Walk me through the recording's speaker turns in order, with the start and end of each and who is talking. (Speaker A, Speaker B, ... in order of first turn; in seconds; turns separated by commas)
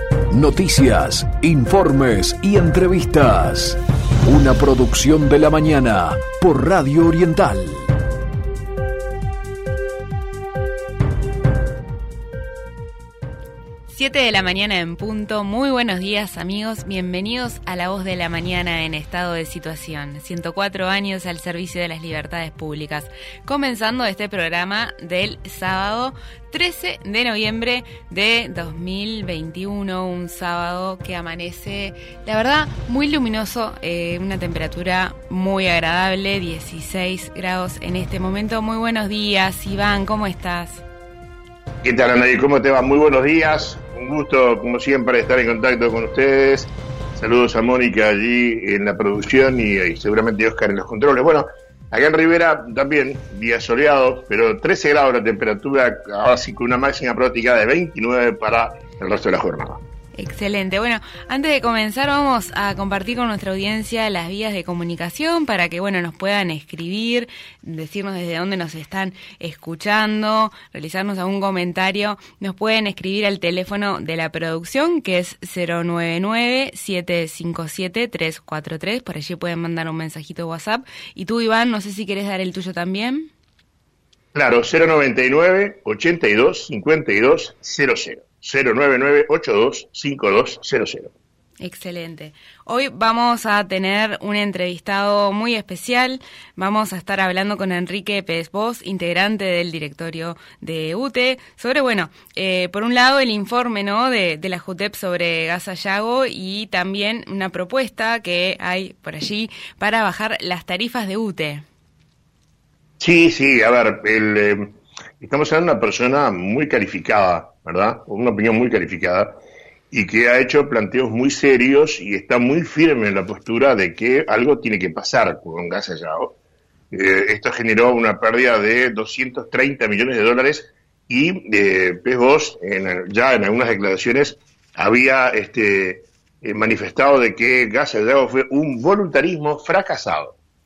Speaker A: 0.3-7.9, Speaker B: 13.9-40.8, Speaker C: 41.8-59.8, Speaker B: 60.1-83.3, Speaker C: 84.3-91.1, Speaker B: 91.6-111.6, Speaker C: 113.0-119.3, Speaker C: 119.9-126.4, Speaker C: 126.9-140.3